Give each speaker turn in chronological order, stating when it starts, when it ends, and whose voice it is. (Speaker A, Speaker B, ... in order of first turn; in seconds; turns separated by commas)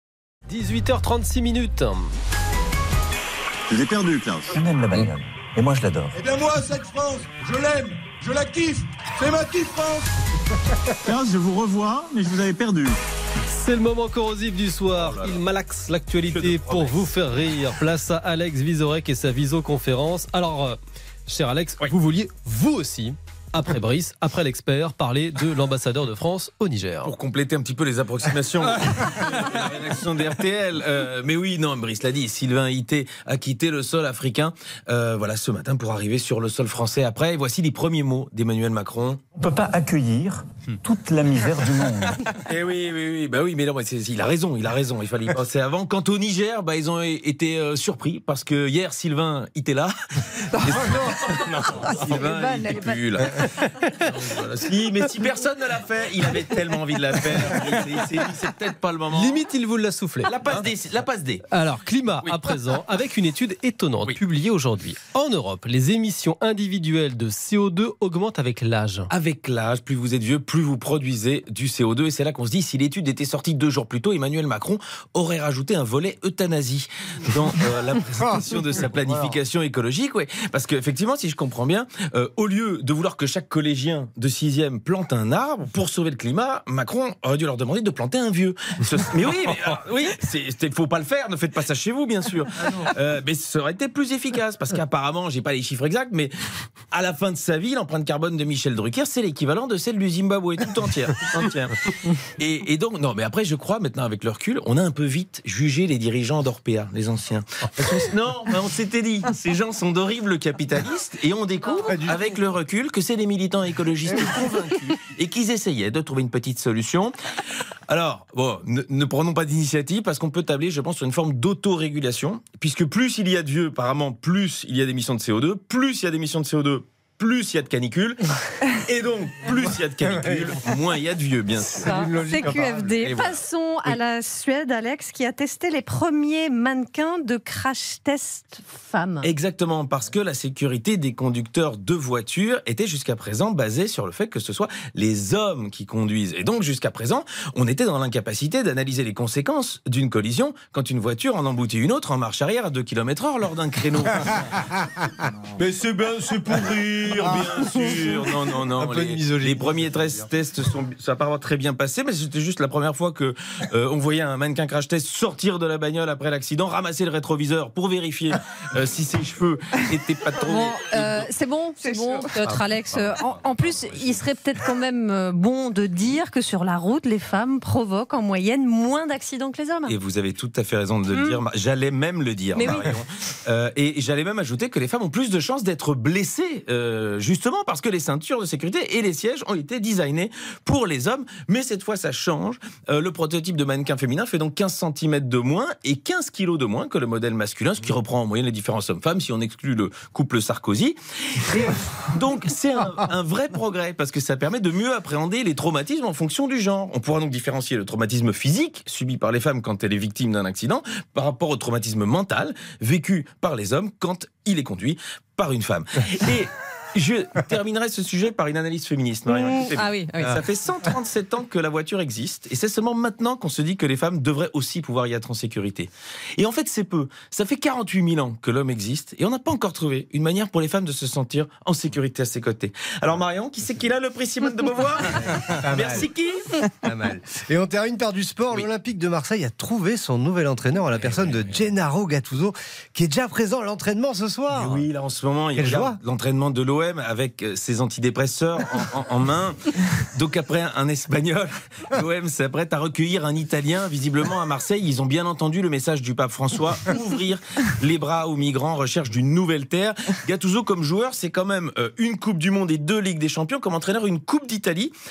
Speaker A: 0.5-2.1, Speaker B: 3.7-4.6, Speaker C: 4.5-6.2, Speaker D: 6.1-10.1, Speaker B: 11.0-13.0, Speaker A: 13.5-27.1, Speaker E: 14.9-15.4, Speaker E: 16.3-17.1, Speaker E: 27.0-39.2, Speaker C: 39.4-40.2, Speaker C: 40.9-42.1, Speaker E: 42.5-49.9, Speaker E: 50.5-53.4, Speaker E: 54.0-59.4, Speaker A: 59.1-60.5, Speaker E: 60.2-61.4, Speaker A: 61.5-69.1, Speaker E: 69.1-96.3, Speaker F: 79.0-79.3, Speaker E: 96.9-117.2, Speaker F: 111.9-112.2, Speaker F: 114.0-114.6, Speaker E: 117.9-132.1, Speaker G: 131.8-139.3, Speaker F: 131.8-133.0, Speaker E: 133.0-134.0, Speaker E: 139.2-154.7, Speaker E: 155.6-171.3, Speaker F: 157.2-159.7, Speaker G: 170.4-179.9, Speaker E: 172.5-174.2, Speaker E: 179.9-236.7, Speaker G: 181.1-181.4, Speaker G: 182.5-182.9, Speaker G: 219.3-220.4, Speaker F: 235.4-236.1, Speaker F: 236.7-244.9, Speaker E: 240.9-241.7, Speaker E: 244.5-264.9, Speaker F: 245.6-246.0